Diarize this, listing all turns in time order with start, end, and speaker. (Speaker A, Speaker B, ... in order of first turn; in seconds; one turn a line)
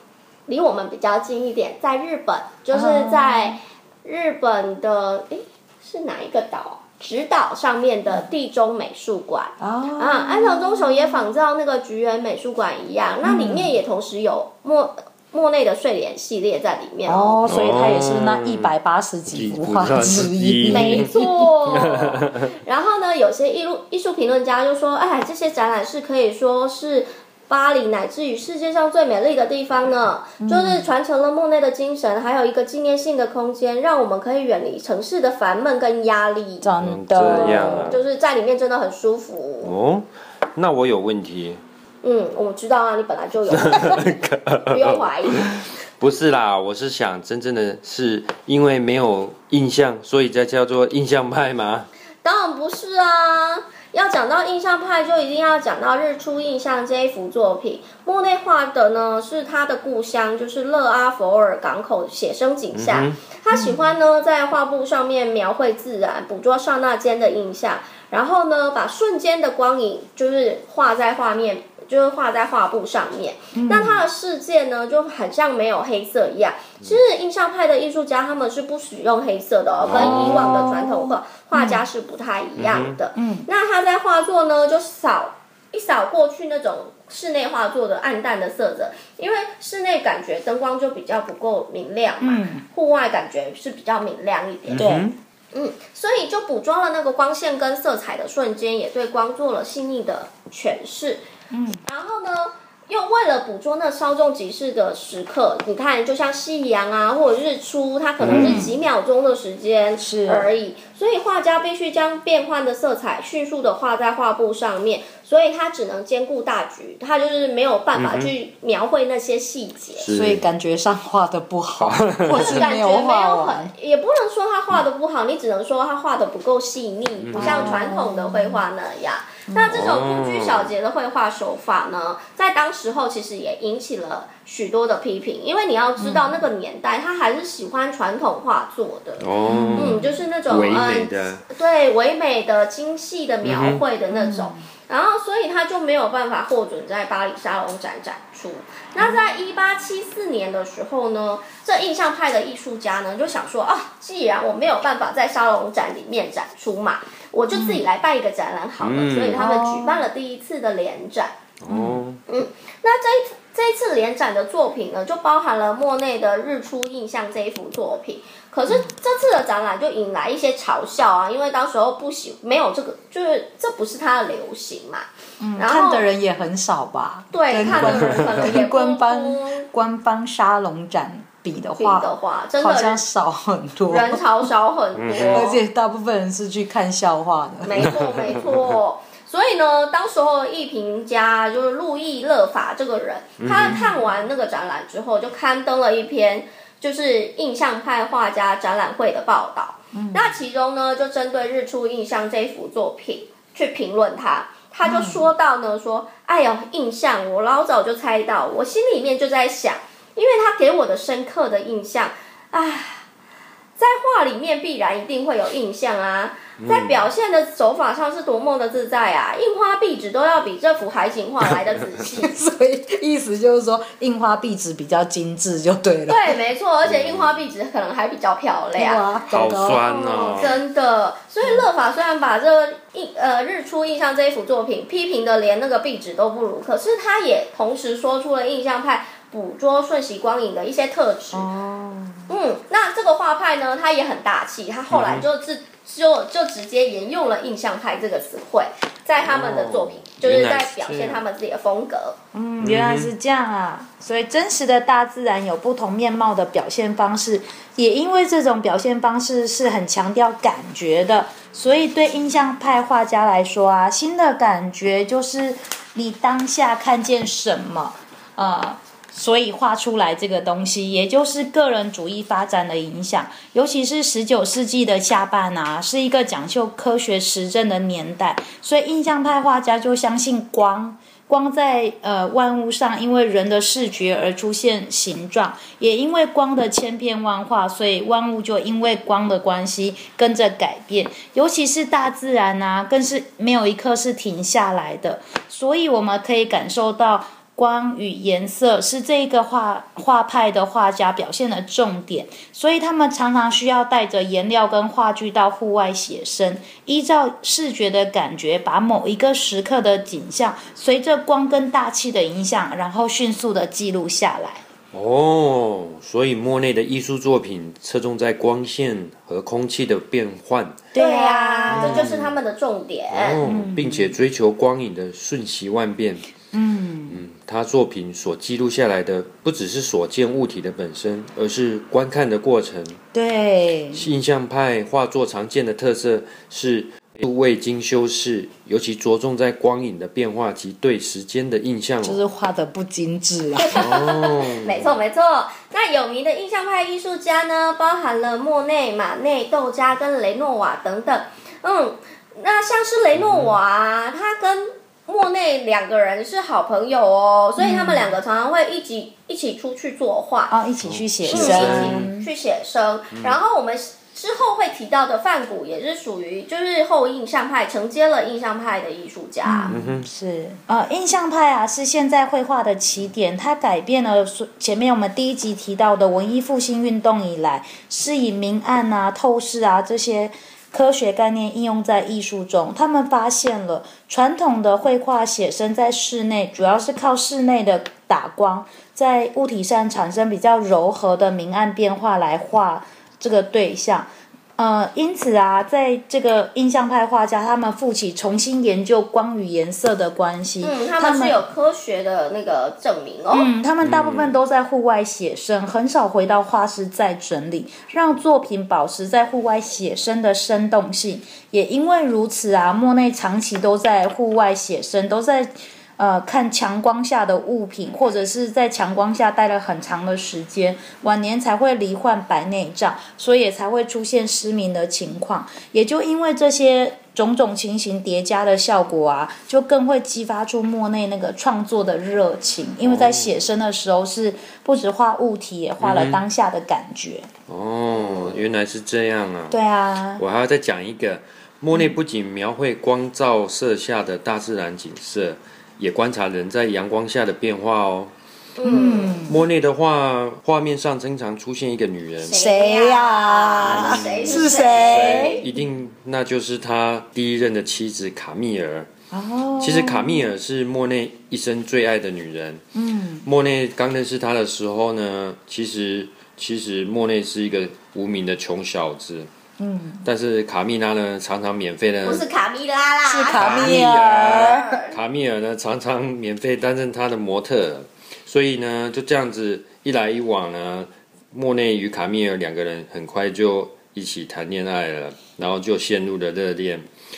Speaker A: 0.5-17.4
Speaker B: 2.7-3.6
Speaker B: 9.6-11.3
Speaker B: 13.2-13.7
Speaker B: 17.1-21.2
Speaker C: 17.4-18.7
Speaker C: 19.3-22.5
Speaker A: 20.7-36.7
Speaker B: 30.4-30.9
Speaker B: 36.6-38.0
Speaker C: 36.8-38.0
Speaker A: 37.3-39.7
Speaker C: 39.6-41.6
Speaker A: 42.0-44.2
Speaker C: 43.5-51.9
Speaker A: 44.7-45.7
Speaker A: 52.2-94.9
Speaker C: 62.7-63.2
Speaker B: 63.5-63.9
Speaker B: 73.5-74.0
Speaker C: 79.8-80.7
Speaker B: 80.0-81.8
Speaker C: 82.6-83.0
Speaker B: 83.2-83.5
Speaker B: 92.2-92.7
Speaker C: 94.7-95.2
Speaker B: 94.8-95.1
Speaker A: 95.5-101.3
Speaker B: 101.5-101.8
Speaker A: 101.8-120.1
Speaker C: 108.2-108.7
Speaker B: 108.3-108.7
Speaker B: 110.0-110.5
Speaker C: 118.0-118.3
Speaker C: 120.0-120.5
Speaker B: 120.1-123.7
Speaker C: 121.8-122.7
Speaker A: 122.3-161.4
Speaker C: 127.2-127.8
Speaker B: 127.3-128.6
Speaker B: 129.5-129.8
Speaker C: 129.7-130.7
Speaker B: 136.0-136.4
Speaker C: 139.2-141.4
Speaker B: 139.5-140.1
Speaker C: 143.4-143.8
Speaker B: 144.1-144.6
Speaker B: 157.5-157.8
Speaker C: 158.8-159.4
Speaker B: 159.4-160.1
Speaker C: 161.6-162.2
Speaker B: 161.7-162.0
Speaker A: 162.3-175.1
Speaker B: 175.4-184.5
Speaker A: 175.6-176.1
Speaker A: 177.3-179.7
Speaker C: 177.7-178.5
Speaker A: 181.8-183.0
Speaker A: 183.9-185.6
Speaker C: 185.0-185.5
Speaker B: 185.1-187.9
Speaker A: 187.6-213.1
Speaker C: 187.8-188.7
Speaker C: 193.4-193.8
Speaker B: 193.7-193.9
Speaker B: 199.9-200.4
Speaker B: 204.8-205.3
Speaker A: 213.8-222.3
Speaker C: 216.6-217.1
Speaker B: 222.2-226.4
Speaker A: 226.1-229.2
Speaker C: 226.9-227.3
Speaker B: 228.8-229.9
Speaker C: 229.3-230.6
Speaker A: 229.8-241.5
Speaker B: 241.3-242.3
Speaker A: 242.3-252.2
Speaker C: 244.9-245.3
Speaker C: 249.2-251.2
Speaker B: 252.3-314.6
Speaker C: 252.6-253.1
Speaker C: 314.9-320.8
Speaker B: 320.9-322.1
Speaker A: 321.0-323.4
Speaker C: 321.7-322.3
Speaker C: 323.1-326.3
Speaker B: 323.4-324.1
Speaker B: 326.5-327.2
Speaker C: 327.1-333.0
Speaker B: 333.1-334.1
Speaker C: 333.9-342.2
Speaker B: 342.0-343.9
Speaker A: 343.6-360.6
Speaker C: 343.7-345.0
Speaker C: 353.2-353.5
Speaker B: 357.6-358.2
Speaker B: 360.5-362.3
Speaker C: 360.8-362.1
Speaker A: 361.3-369.8
Speaker C: 363.1-363.4
Speaker B: 369.4-401.4
Speaker C: 369.7-370.1
Speaker A: 400.6-403.5
Speaker B: 403.3-437.3
Speaker C: 403.8-404.3
Speaker C: 432.8-433.4
Speaker C: 435.8-436.2
Speaker C: 437.5-439.6
Speaker A: 438.0-438.4
Speaker B: 439.5-440.2
Speaker C: 440.2-448.1
Speaker A: 448.6-449.3
Speaker B: 448.6-449.4
Speaker C: 449.2-452.4
Speaker A: 452.2-455.4
Speaker B: 452.3-455.6
Speaker C: 453.6-458.9
Speaker B: 459.1-460.3
Speaker C: 459.6-462.6
Speaker B: 462.8-463.3
Speaker C: 463.2-469.3
Speaker B: 469.6-470.1
Speaker C: 470.0-472.3
Speaker A: 472.0-474.9
Speaker B: 473.1-474.8
Speaker C: 473.4-486.9